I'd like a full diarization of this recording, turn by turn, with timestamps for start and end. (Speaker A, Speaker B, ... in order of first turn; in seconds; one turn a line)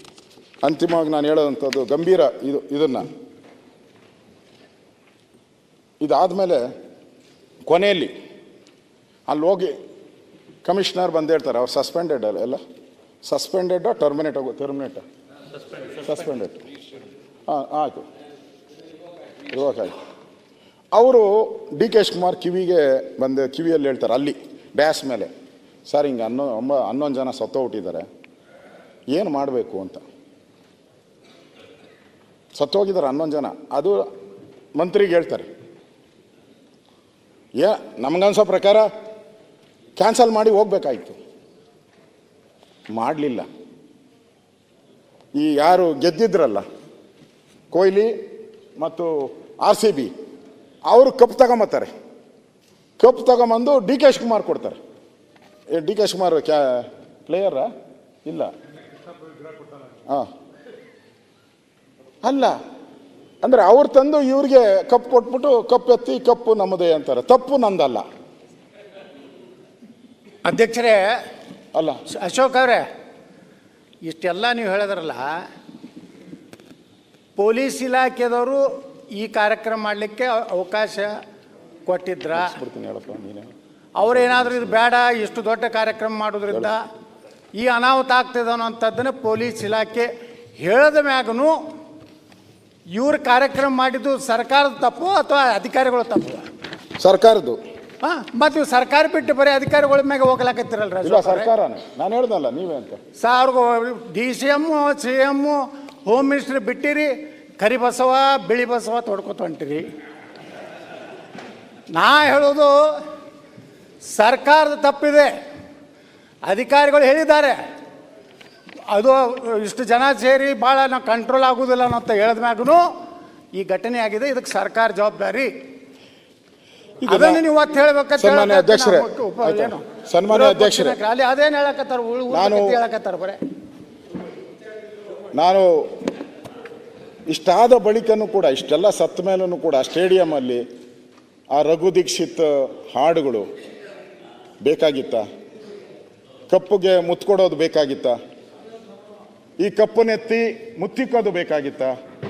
Speaker A: 0.6-3.1
Speaker A: 6.0-6.6
Speaker A: 7.7-8.1
Speaker A: 9.3-9.8
Speaker A: 10.6-12.6
Speaker A: 13.2-15.0
Speaker A: 16.0-16.6
Speaker A: 17.5-18.1
Speaker A: 19.5-19.9
Speaker A: 20.9-25.3
Speaker A: 25.9-28.1
Speaker A: 29.1-30.0
Speaker A: 32.6-34.0
Speaker A: 34.8-35.5
Speaker A: 37.6-38.9
Speaker A: 40.0-41.2
Speaker A: 42.9-43.5
Speaker A: 45.4-46.6
Speaker A: 47.7-48.1
Speaker A: 48.8-50.1
Speaker A: 50.9-51.9
Speaker A: 53.0-54.8
Speaker A: 55.7-57.7
Speaker A: 58.2-58.5
Speaker A: 62.2-62.6
Speaker A: 63.4-68.0
Speaker B: 70.4-71.2
Speaker A: 71.7-72.0
Speaker B: 72.1-72.9
Speaker B: 74.0-75.3
Speaker B: 77.4-81.2
Speaker B: 81.9-82.6
Speaker A: 82.3-83.5
Speaker B: 84.0-86.8
Speaker A: 84.0-84.8
Speaker B: 87.5-91.6
Speaker B: 92.9-96.5
Speaker A: 97.0-97.6
Speaker B: 98.0-101.5
Speaker A: 101.0-103.0
Speaker B: 103.2-109.9
Speaker B: 111.9-113.0
Speaker B: 114.0-115.3
Speaker B: 116.4-117.6
Speaker B: 118.9-122.8
Speaker B: 123.5-125.5
Speaker A: 127.0-127.4
Speaker B: 127.1-133.4
Speaker A: 128.2-131.0
Speaker A: 132.3-132.8
Speaker A: 135.3-135.9
Speaker A: 137.3-140.6
Speaker A: 141.5-143.5
Speaker A: 144.6-145.2
Speaker A: 146.5-148.2
Speaker A: 149.6-151.9